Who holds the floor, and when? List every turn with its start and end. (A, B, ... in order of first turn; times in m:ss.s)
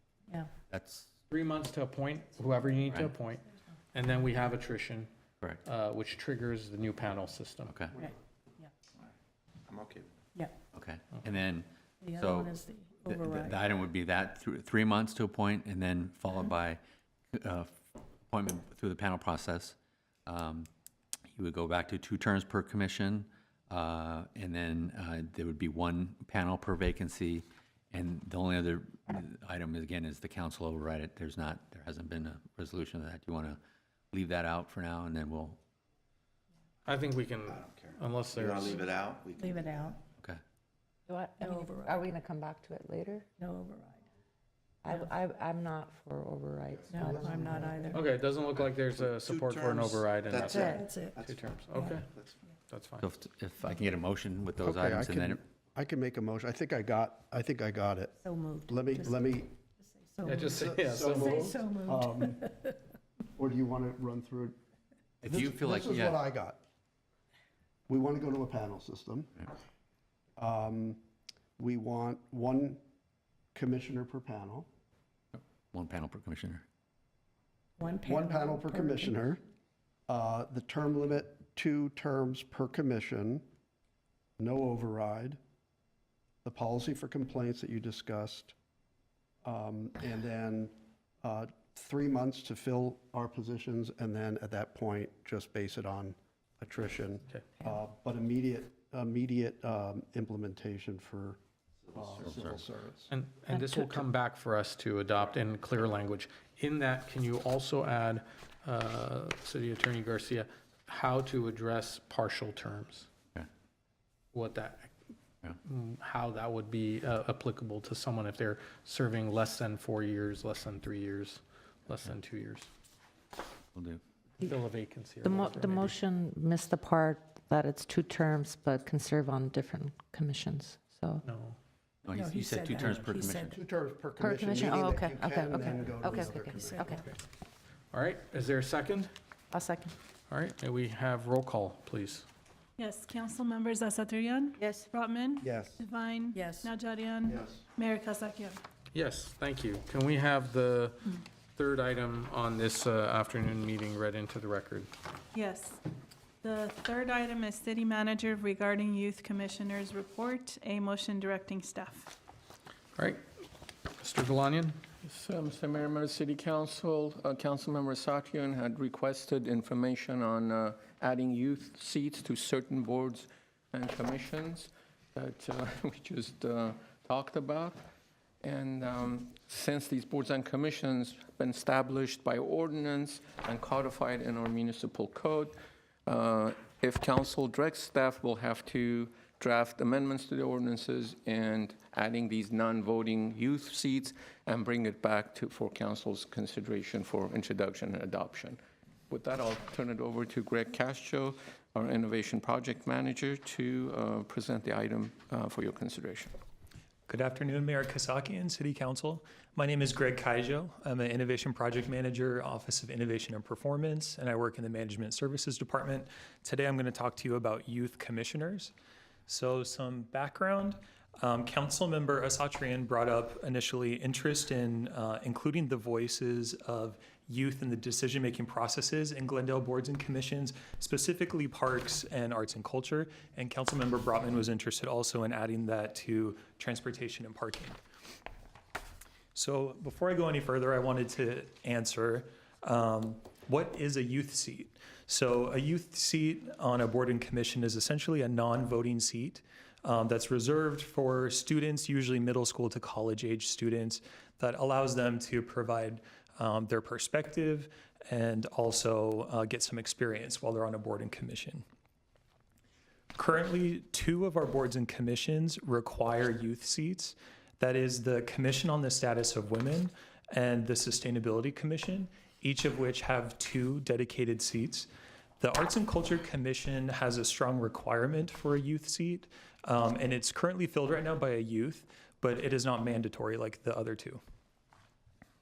0:00.7-0:01.1 A
0:01.3-0:03.4 B
0:03.9-0:05.1 B
0:05.6-0:07.8 B
0:07.7-0:08.0 A
0:08.0-0:08.7 C
0:09.7-0:10.1 D
0:10.7-0:16.8 A
0:12.0-0:13.5 C
0:17.3-0:20.7 A
0:21.3-0:33.6 A
0:34.1-0:35.6 A
0:36.9-0:39.0 B
0:37.5-0:40.0 D
0:39.4-0:40.0 C
0:41.1-0:43.3 E
0:41.4-0:42.1 C
0:43.4-0:44.0 C
0:44.8-0:47.4 E
0:46.9-0:48.0 F
0:46.9-0:48.0 C
0:47.9-0:52.1 B
0:48.5-0:52.4 D
0:50.5-0:50.9 E
0:50.8-0:51.2 C
0:52.7-0:53.1 B
0:53.0-0:55.4 A
0:54.6-0:58.2 F
0:58.2-0:59.2 C
0:58.7-0:59.5 F
1:00.0-1:00.5 C
1:00.2-1:01.5 B
1:00.5-1:02.5 F
1:01.0-1:02.7 C
1:03.4-1:04.6 F
1:05.2-1:06.2 A
1:05.2-1:06.6 F
1:07.9-1:09.3 F
1:10.4-1:11.0 F
1:11.6-1:12.8 F
1:13.6-1:14.7 F
1:15.4-1:16.6 A
1:17.8-1:19.1 C
1:17.8-1:19.4 F
1:20.1-1:23.4 F
1:24.4-1:25.4 F
1:26.4-1:28.5 F
1:29.4-1:41.4 F
1:41.9-1:43.1 F
1:42.2-1:42.6 A
1:43.1-1:53.1 B
1:43.5-1:44.0 E
1:54.3-1:54.9 B
1:55.6-2:02.7 B
2:03.7-2:04.0 A
2:04.4-2:05.9 B
2:05.2-2:11.2 E
2:11.2-2:11.6 B
2:12.0-2:13.6 A
2:12.2-2:13.5 C
2:13.4-2:17.0 F
2:14.2-2:17.0 E
2:17.9-2:19.1 B
2:19.5-2:19.9 E
2:20.3-2:22.2 B
2:22.8-2:28.6 G
2:24.6-2:24.9 E
2:25.4-2:25.8 F
2:27.2-2:27.6 F
2:28.9-2:34.9 B
2:35.3-2:35.8 G
2:36.4-2:42.1 G
2:43.0-2:43.2 B
2:44.0-2:44.9 B
2:45.1-2:57.8 H
2:58.4-3:05.6 H
3:06.1-3:18.6 H
3:19.1-3:26.3 H
3:27.1-3:38.7 I
3:39.3-3:57.8 I
3:59.4-4:21.6 I
4:23.2-4:34.9 I
4:35.4-4:44.2 I